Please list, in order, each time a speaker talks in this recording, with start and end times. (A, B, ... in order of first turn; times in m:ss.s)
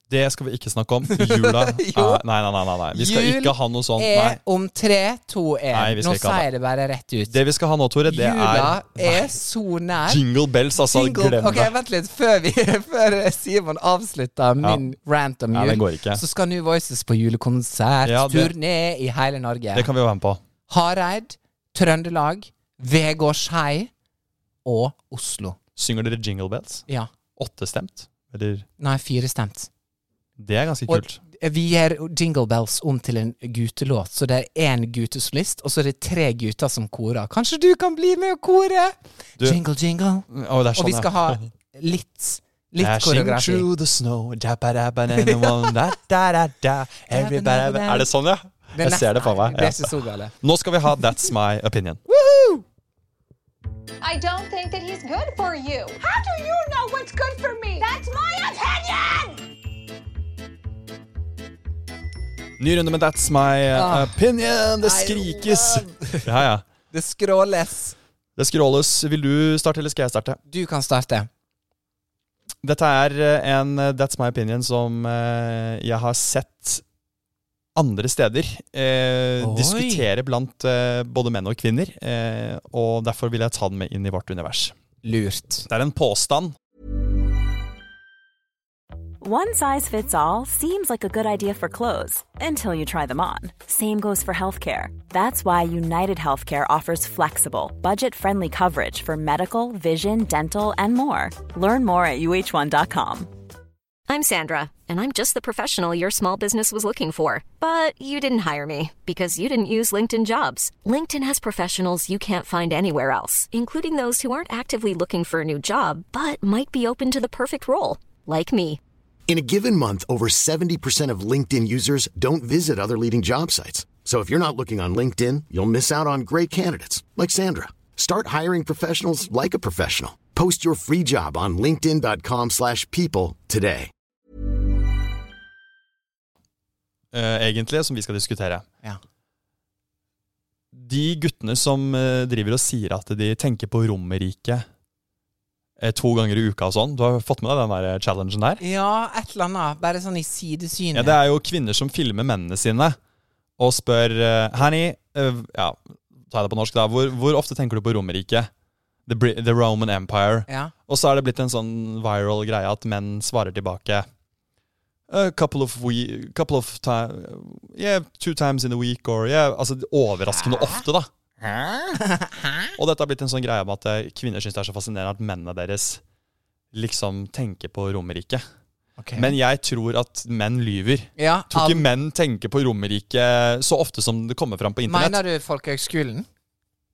0:00.1-0:04.4 A
0:01.1-0:02.2 B
0:02.9-0:07.4 B
0:05.7-0:06.5 A
0:07.3-0:09.3 A
0:08.1-0:10.2 B
0:10.1-0:11.7 A
0:10.8-0:19.9 B
0:15.5-0:16.2 A
0:18.0-0:18.5 A
0:19.7-0:20.4 A
0:20.7-0:23.9 B
0:24.6-0:25.6 B
0:25.8-0:28.7 A
0:28.8-0:29.7 B
0:30.4-0:31.2 A
0:30.9-0:43.7 B
0:40.3-0:41.5 A
0:42.8-0:52.1 A
0:45.1-0:45.9 B
0:47.1-0:48.1 B
0:48.7-0:50.3 B
0:52.2-0:52.6 B
0:54.0-0:59.4 C
1:02.6-1:06.6 A
1:03.7-1:04.2 B
1:04.8-1:06.3 B
1:06.9-1:08.0 B
1:08.4-1:10.4 A
1:10.5-1:11.3 B
1:12.6-1:16.8 A
1:17.8-1:24.8 A
1:19.4-1:20.1 B
1:25.0-1:25.7 B
1:25.7-1:26.6 A
1:29.2-1:43.3 D
1:44.1-1:58.8 E
1:59.3-2:13.9 F
2:17.1-2:18.7 A
2:20.7-2:24.7 A
2:25.8-2:28.6 A
2:28.6-2:31.2 B
2:30.9-2:33.0 A
2:33.6-2:38.5 A
2:39.1-2:44.1 A
2:40.5-2:40.7 B
2:45.1-2:51.1 A
2:50.3-2:50.8 B
2:51.4-2:52.8 B
2:52.8-2:56.0 A
2:56.7-2:58.4 A
2:59.0-2:59.3 B
2:59.2-3:05.2 A
3:01.2-3:01.9 B
3:04.9-3:06.3 B